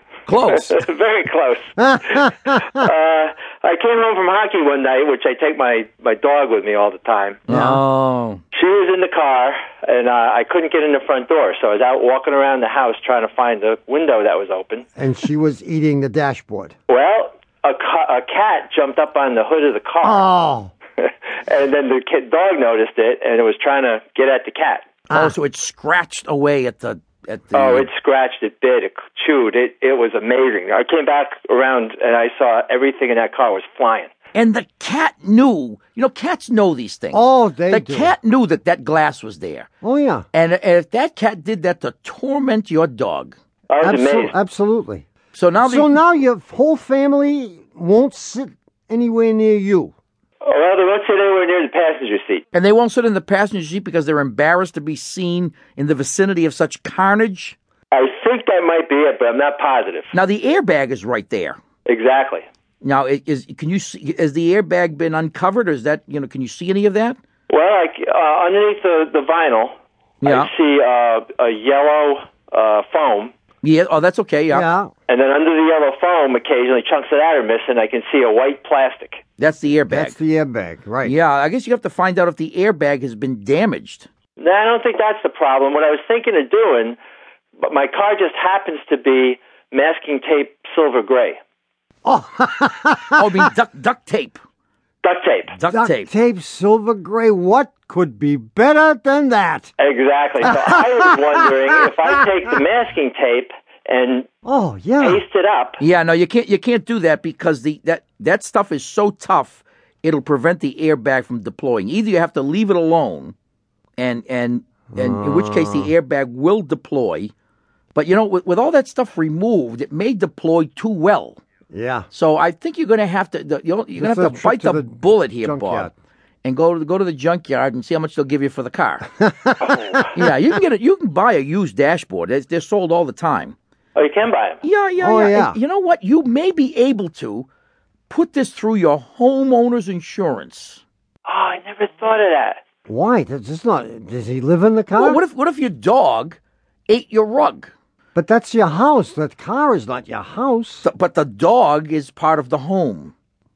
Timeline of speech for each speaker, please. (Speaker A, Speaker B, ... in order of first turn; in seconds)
Speaker A: 0.3-0.8, 7.5-8.4, 25.1-27.9, 34.3-39.7, 40.3-43.4, 45.3-46.0, 52.5-57.6, 60.1-61.6, 62.8-67.2, 70.2-70.5, 73.6-74.7, 79.4-80.2, 81.0-84.1, 93.2-94.4, 95.5-96.1, 105.8-113.3, 114.0-117.3, 117.9-121.4, 122.1-125.9, 126.4-129.1, 130.1-133.6, 134.6-137.5, 138.1-140.8, 144.9-147.7, 150.8-153.1
Speaker B: 0.4-7.4, 8.5-14.8, 16.9-20.3, 21.0-24.9, 27.5-34.1, 43.7-44.3, 50.4-52.4, 57.9-60.1, 61.9-62.5, 67.5-69.7, 70.2-73.3, 75.1-79.2, 84.4-87.0, 87.6-91.4, 95.0-95.5, 99.8-104.3, 105.0-105.8, 129.6-130.0, 133.9-134.6, 141.2-142.6
Speaker C: 1.8-2.8, 7.5-7.8, 14.9-16.7, 20.0-20.7, 25.1-25.3, 37.1-38.1, 39.8-40.3, 43.8-45.1, 45.6-49.9, 74.5-74.9, 79.9-81.2, 92.0-93.5, 95.7-99.7, 100.4-100.8, 104.4-105.2, 114.9-115.9, 121.7-122.1, 124.0-125.9, 129.2-130.1, 135.0-135.6, 142.9-145.2, 148.1-150.8